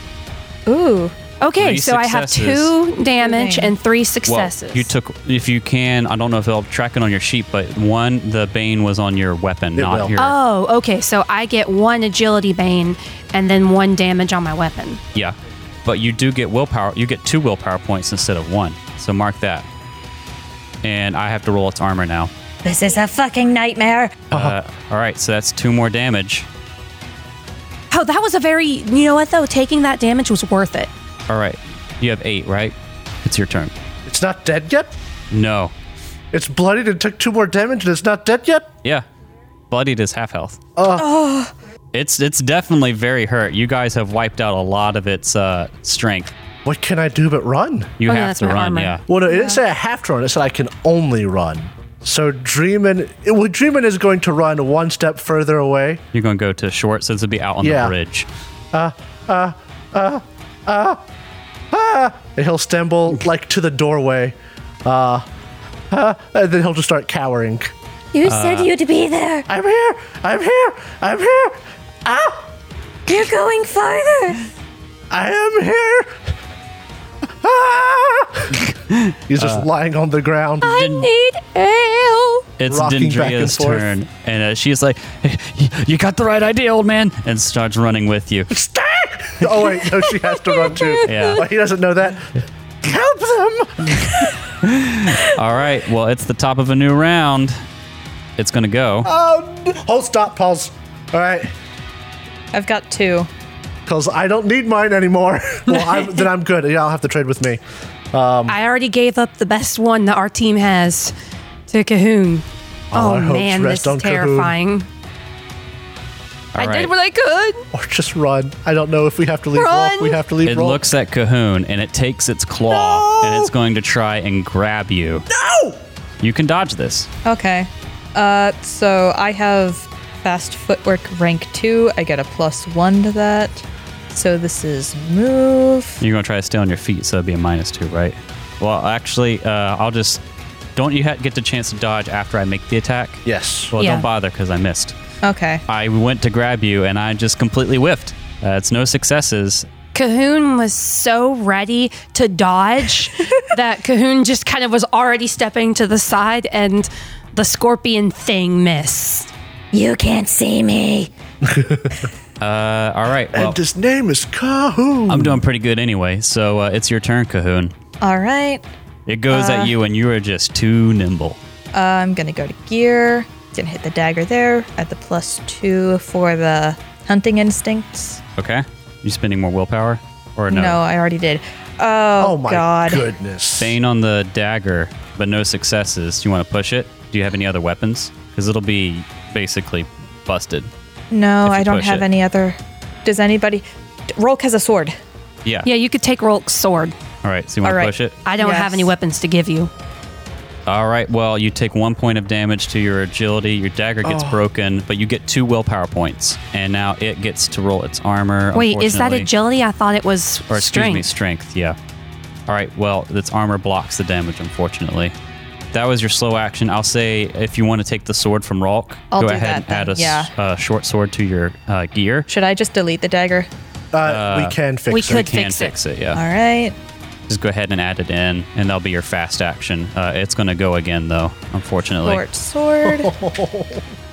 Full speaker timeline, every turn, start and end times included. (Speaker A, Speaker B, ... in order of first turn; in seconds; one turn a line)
Speaker A: 0.7-1.1
Speaker B: 1.4-4.9
Speaker C: 1.6-2.7
Speaker A: 3.2-3.7
Speaker C: 4.3-10.3
Speaker D: 9.8-10.2
Speaker B: 10.2-15.0
Speaker C: 15.1-19.7
Speaker C: 20.8-22.3
Speaker E: 22.6-24.2
Speaker C: 24.3-26.5
Speaker B: 27.9-30.9
Speaker C: 31.3-33.7
Speaker D: 34.0-34.9
Speaker C: 35.3-35.7
Speaker D: 36.3-38.7
Speaker C: 39.7-40.6
Speaker D: 40.8-41.2
Speaker A: 40.9-41.5
Speaker C: 41.9-46.3
Speaker D: 46.6-47.9
Speaker C: 48.0-49.0
Speaker B: 48.0-49.0
Speaker D: 49.1-56.0
Speaker A: 49.3-49.6
Speaker C: 56.1-58.3
Speaker D: 57.6-57.9
Speaker D: 58.7-61.0
Speaker D: 61.7-65.2
Speaker D: 65.9-67.7
Speaker E: 68.1-69.5
Speaker C: 68.2-68.7
Speaker D: 69.5-72.5
Speaker E: 73.1-74.4
Speaker D: 75.1-76.3
Speaker D: 77.4-78.7
Speaker C: 78.5-79.7
Speaker D: 79.3-80.7
Speaker B: 80.6-81.8
Speaker C: 80.6-81.1
Speaker E: 81.2-82.4
Speaker C: 82.6-88.5
Speaker D: 82.7-83.9
Speaker D: 88.5-94.3
Speaker C: 91.0-91.4
Speaker C: 94.6-97.6
Speaker C: 98.4-99.1
Speaker D: 99.0-101.5
Speaker A: 102.5-103.3
Speaker D: 103.8-107.6
Speaker B: 105.8-106.2
Speaker D: 108.1-108.6
Speaker B: 108.5-111.1
Speaker B: 111.7-114.9
Speaker D: 112.9-114.5
Speaker C: 116.5-116.9
Speaker B: 116.6-117.6
Speaker D: 117.7-120.8
Speaker B: 119.5-120.2
Speaker C: 120.4-125.3
Speaker D: 122.7-123.5
Speaker D: 125.3-125.8
Speaker C: 126.2-127.1
Speaker A: 127.2-136.0
Speaker C: 136.0-140.2
Speaker C: 140.8-144.9
Speaker D: 143.2-143.7
Speaker B: 143.8-144.1
Speaker A: 145.2-145.6
Speaker C: 145.7-149.7
Speaker B: 149.9-159.3
Speaker E: 159.7-161.1
Speaker D: 161.4-162.1
Speaker C: 162.4-163.6
Speaker D: 163.3-165.4
Speaker C: 165.1-167.7
Speaker A: 168.0-168.6
Speaker C: 169.1-171.4
Speaker A: 169.3-169.7
Speaker A: 171.7-178.2
Speaker C: 178.4-180.8
Speaker A: 180.5-183.1
Speaker D: 182.2-183.8
Speaker C: 183.6-190.7
Speaker A: 191.1-193.6
Speaker C: 191.4-192.1
Speaker A: 194.2-195.0
Speaker B: 195.6-196.9
Speaker C: 197.2-198.2
Speaker A: 197.6-198.9
Speaker B: 198.2-199.7
Speaker C: 200.7-209.3
Speaker D: 204.0-204.4
Speaker B: 208.5-211.1
Speaker C: 210.5-211.8
Speaker C: 212.5-215.1
Speaker C: 215.7-222.3
Speaker A: 219.1-220.3
Speaker A: 222.3-223.5
Speaker D: 223.9-225.3
Speaker C: 224.0-226.2
Speaker B: 224.9-225.8
Speaker A: 226.1-226.7
Speaker C: 227.3-232.2
Speaker A: 232.0-233.1
Speaker D: 232.8-233.8